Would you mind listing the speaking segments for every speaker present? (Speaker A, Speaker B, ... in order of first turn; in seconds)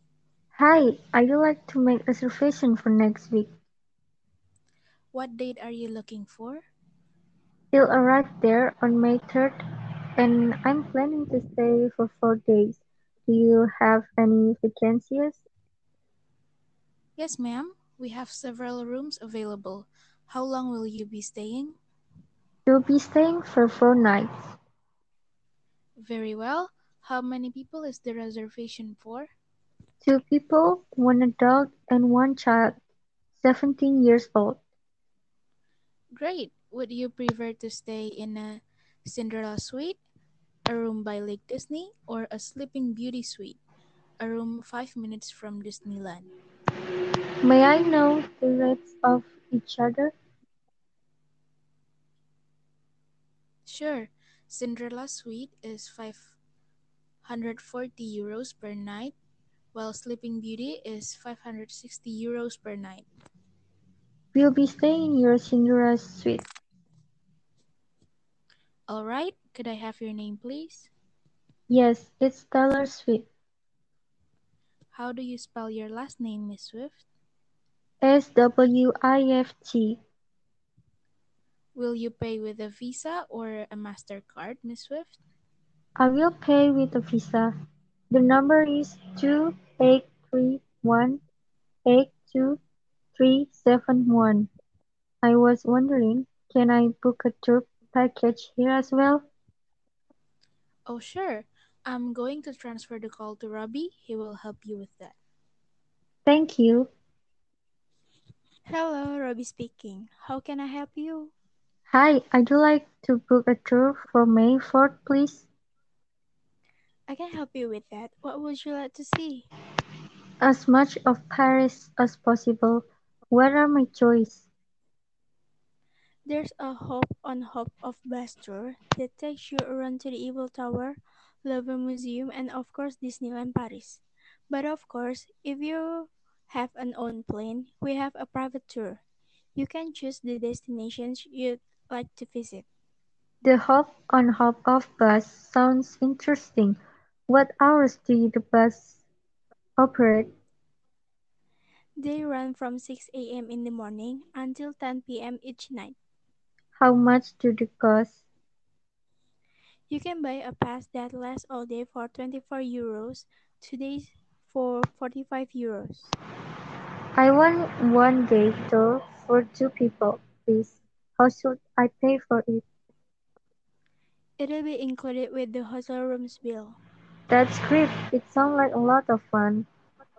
Speaker A: 0.5-3.5, 7.7-9.6, 10.2-15.4, 22.6-24.5, 30.0-32.8, 33.4-34.6, 47.4-50.1, 64.3-66.4, 71.7-73.2, 78.0-80.0, 86.0-87.5, 88.1-91.2, 91.8-92.6, 93.1-94.5, 95.2-99.3, 106.2-106.9, 111.9-115.5, 120.4-124.4, 143.4-149.0, 149.8-150.3, 156.8-158.2, 167.2-172.6, 177.3-179.7
Speaker B: 5.1-6.6, 17.2-21.7, 26.0-29.3, 36.1-40.0, 40.7-43.6, 44.2-46.3, 53.6-56.3, 57.2-59.1, 59.7-63.0, 68.9-70.9, 74.9-77.0, 81.7-85.2, 100.9-105.2
Speaker C: 108.7-111.3, 117.1-119.5, 126.2-139.0, 139.6-142.6, 152.0-155.9, 159.9-166.1, 174.4-176.8